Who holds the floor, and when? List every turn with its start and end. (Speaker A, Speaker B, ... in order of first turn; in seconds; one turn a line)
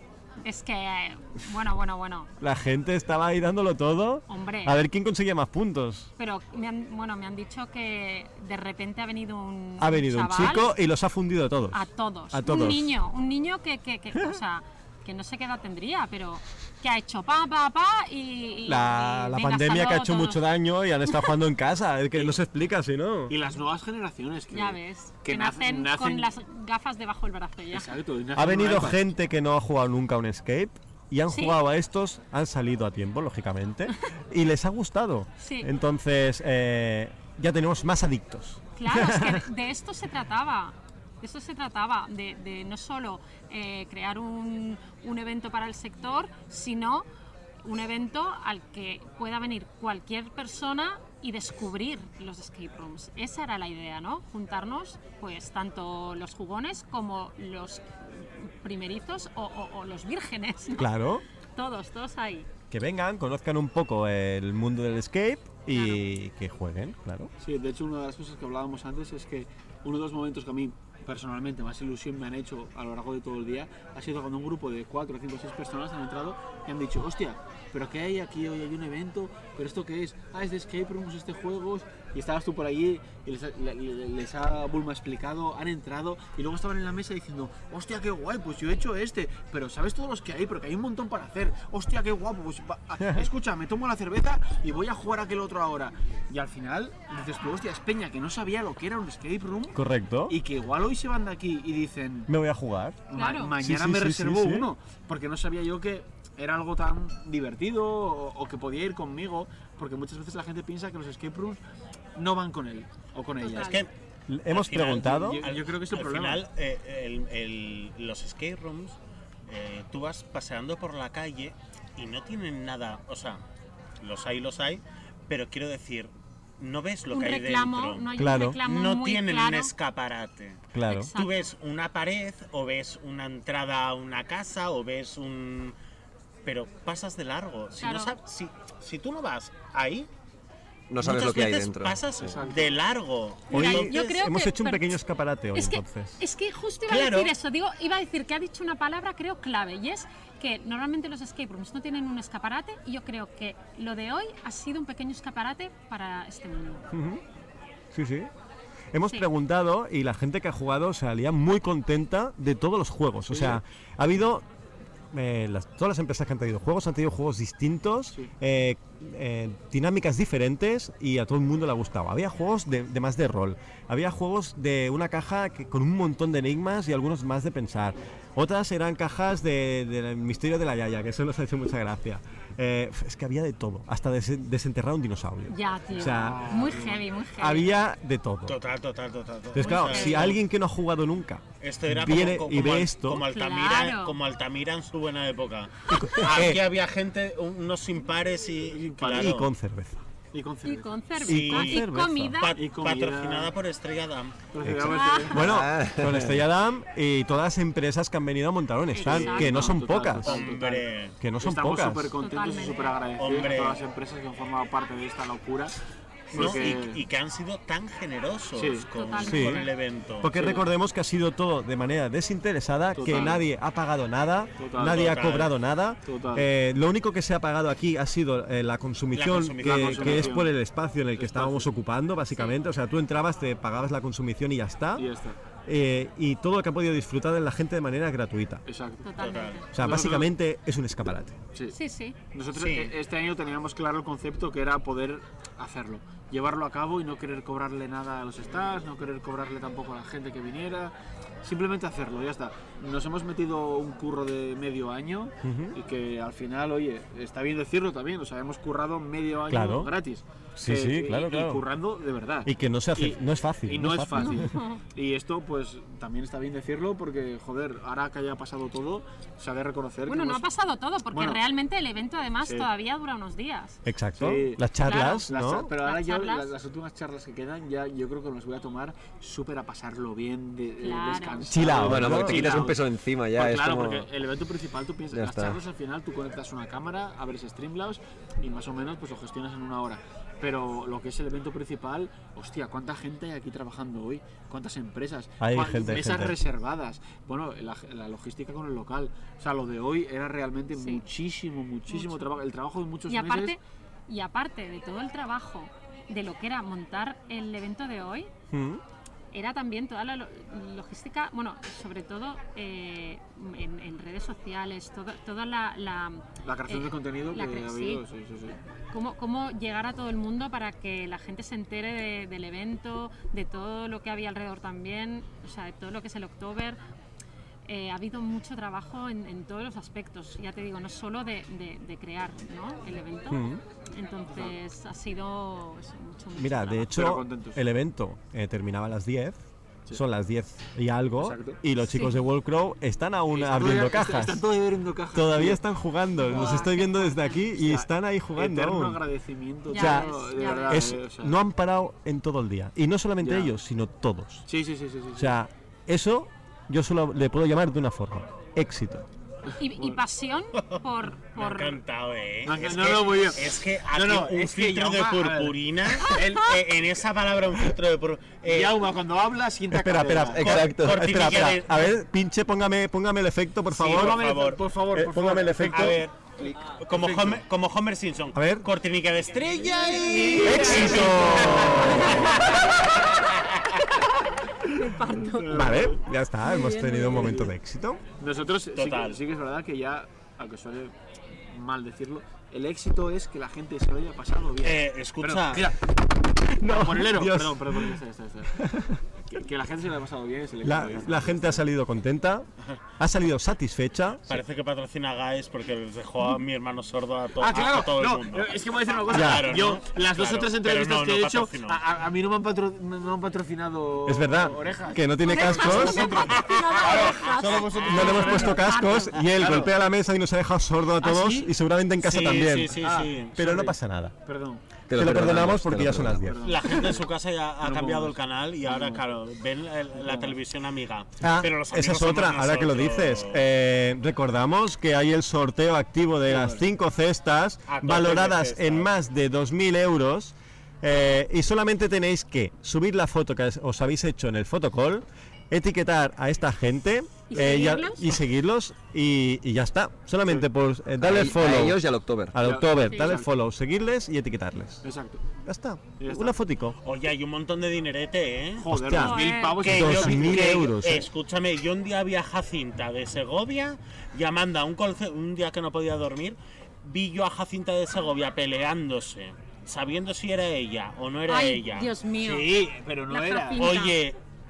Speaker A: 0.4-2.3
Speaker B: 2.4-6.1
Speaker A: 4.3-4.8
Speaker A: 6.2-10.7
Speaker B: 9.8-12.9
Speaker A: 11.7-20.4
Speaker B: 18.7-23.4
Speaker C: 23.3-26.3
Speaker A: 24.5-27.9
Speaker C: 27.7-29.0
Speaker B: 28.4-39.5
Speaker A: 31.3-31.6
Speaker A: 35.4-35.7
Speaker A: 38.8-47.1
Speaker A: 47.6-60.9
Speaker B: 60.8-61.2
Speaker A: 61.6-62.5
Speaker B: 62.7-67.3
Speaker A: 65.7-66.0
Speaker C: 67.4-102.3
Speaker B: 93.0-93.3
Speaker B: 99.7-100.4
Speaker B: 102.3-104.7
Speaker C: 103.1-111.6
Speaker A: 103.1-103.5
Speaker C: 112.2-113.8
Speaker A: 113.4-113.8
Speaker D: 113.6-113.9
Speaker B: 114.3-115.5
Speaker D: 114.5-123.4
Speaker C: 114.8-116.5
Speaker D: 124.0-130.6
Speaker A: 127.1-129.7
Speaker B: 128.2-128.6
Speaker B: 130.7-131.1
Speaker A: 130.9-131.4
Speaker D: 131.1-135.8
Speaker D: 136.4-140.1
Speaker A: 137.8-138.2
Speaker E: 140.9-142.0
Speaker D: 141.0-144.2
Speaker C: 142.3-142.8
Speaker A: 143.5-145.0
Speaker B: 143.5-146.2
Speaker A: 145.5-156.9
Speaker D: 146.9-147.3
Speaker B: 156.9-157.2
Speaker B: 157.9-158.3
Speaker B: 158.9-164.4
Speaker C: 163.3-163.6
Speaker B: 165.1-186.8
Speaker A: 185.5-187.8
Speaker C: 186.0-187.0
Speaker B: 187.4-188.6
Speaker D: 188.5-190.4
Speaker B: 189.5-193.3
Speaker A: 189.6-190.4
Speaker D: 191.6-199.5
Speaker A: 193.2-194.2
Speaker B: 195.9-196.6
Speaker C: 198.7-199.4
Speaker B: 199.1-200.0
Speaker C: 200.3-201.0
Speaker A: 200.7-202.6
Speaker D: 201.2-201.9
Speaker B: 201.2-202.4
Speaker D: 202.4-204.4
Speaker C: 202.6-203.6
Speaker C: 204.5-205.6
Speaker B: 204.6-210.4
Speaker A: 204.8-205.4
Speaker E: 205.4-206.4
Speaker A: 208.9-209.7
Speaker C: 209.0-210.9
Speaker D: 210.2-211.2
Speaker B: 211.2-212.2
Speaker C: 211.4-215.8
Speaker A: 212.2-213.0
Speaker D: 213.2-213.8
Speaker C: 216.3-217.0
Speaker D: 216.3-220.3
Speaker C: 218.6-218.9
Speaker A: 218.9-219.7
Speaker B: 219.2-219.7
Speaker B: 220.2-235.1
Speaker C: 220.3-220.7
Speaker C: 223.0-223.4
Speaker C: 224.6-225.5
Speaker D: 225.0-225.5
Speaker C: 226.1-226.5
Speaker D: 229.1-230.4
Speaker C: 229.6-230.5
Speaker C: 231.2-231.7
Speaker A: 232.3-232.6
Speaker C: 235.0-235.4
Speaker B: 235.7-238.6
Speaker C: 238.7-239.1
Speaker A: 239.0-239.7
Speaker D: 239.2-239.6
Speaker B: 239.7-241.4
Speaker C: 239.8-240.3
Speaker A: 241.7-242.2
Speaker C: 242.3-250.9
Speaker D: 242.5-242.9
Speaker C: 251.4-270.5
Speaker B: 255.4-255.8
Speaker B: 259.5-259.9
Speaker B: 260.6-261.6
Speaker B: 262.4-264.5
Speaker A: 264.2-264.8
Speaker A: 270.1-273.8
Speaker C: 271.1-271.4
Speaker B: 273.9-275.7
Speaker C: 274.2-274.7
Speaker A: 274.8-276.5
Speaker C: 275.3-303.6
Speaker A: 280.8-281.6
Speaker B: 281.5-282.6
Speaker E: 281.7-284.1
Speaker E: 285.1-285.6
Speaker B: 295.4-296.4
Speaker A: 300.8-301.0
Speaker A: 301.9-302.3
Speaker A: 303.1-308.3
Speaker B: 308.5-308.8
Speaker A: 309.3-318.0
Speaker C: 316.4-318.6
Speaker A: 318.9-326.8
Speaker A: 327.7-337.0
Speaker B: 333.3-333.6
Speaker B: 336.4-339.4
Speaker C: 336.9-337.6
Speaker B: 339.9-344.4
Speaker C: 341.2-341.6
Speaker A: 341.9-342.2
Speaker C: 343.3-345.6
Speaker B: 345.1-349.0
Speaker A: 346.2-347.4
Speaker C: 346.3-346.7
Speaker C: 347.5-351.4
Speaker A: 349.7-350.9
Speaker B: 349.7-350.1
Speaker B: 350.7-354.5
Speaker C: 353.2-353.5
Speaker C: 354.5-355.4
Speaker B: 355.1-359.1
Speaker A: 359.6-361.8
Speaker D: 361.3-368.9
Speaker C: 362.4-366.4
Speaker C: 368.4-370.5
Speaker B: 369.7-374.2
Speaker E: 370.4-371.0
Speaker D: 370.4-371.9
Speaker C: 373.7-377.4
Speaker D: 373.8-374.6
Speaker B: 374.9-376.0
Speaker D: 375.7-376.1
Speaker D: 376.7-383.6
Speaker B: 378.3-378.7
Speaker C: 380.0-382.3
Speaker B: 380.4-382.6
Speaker A: 384.6-385.8
Speaker C: 385.2-386.0
Speaker B: 385.5-388.0
Speaker A: 386.4-387.4
Speaker C: 387.1-387.5
Speaker C: 388.2-390.9
Speaker D: 388.8-389.2
Speaker C: 391.5-395.8
Speaker D: 394.6-395.7
Speaker B: 396.4-398.0
Speaker C: 396.6-398.6
Speaker B: 398.5-399.0
Speaker C: 399.3-401.7
Speaker B: 400.6-402.5
Speaker B: 403.0-404.4
Speaker D: 404.3-411.8
Speaker C: 407.4-418.7
Speaker B: 409.1-409.6
Speaker B: 414.1-416.2
Speaker A: 415.2-419.2
Speaker D: 416.1-418.5
Speaker B: 417.8-422.8
Speaker C: 419.3-419.8
Speaker C: 421.0-421.5
Speaker D: 422.0-423.4
Speaker C: 422.5-424.6
Speaker B: 423.3-424.1
Speaker E: 424.9-426.3
Speaker B: 424.9-426.4
Speaker C: 426.2-427.1
Speaker D: 426.4-433.4
Speaker C: 427.6-429.0
Speaker C: 430.0-430.4
Speaker B: 431.2-451.8
Speaker C: 436.3-436.6
Speaker D: 437.7-438.9
Speaker A: 447.3-448.2
Speaker E: 451.0-452.4
Speaker B: 452.3-454.8
Speaker C: 452.4-453.3
Speaker A: 452.9-453.1
Speaker C: 454.8-455.2
Speaker B: 455.4-456.8
Speaker C: 456.0-456.4
Speaker D: 456.8-458.7
Speaker C: 458.6-460.7
Speaker B: 458.7-461.1
Speaker A: 458.9-459.6
Speaker D: 459.6-472.7
Speaker A: 471.3-474.0
Speaker C: 472.5-473.8
Speaker D: 473.6-474.2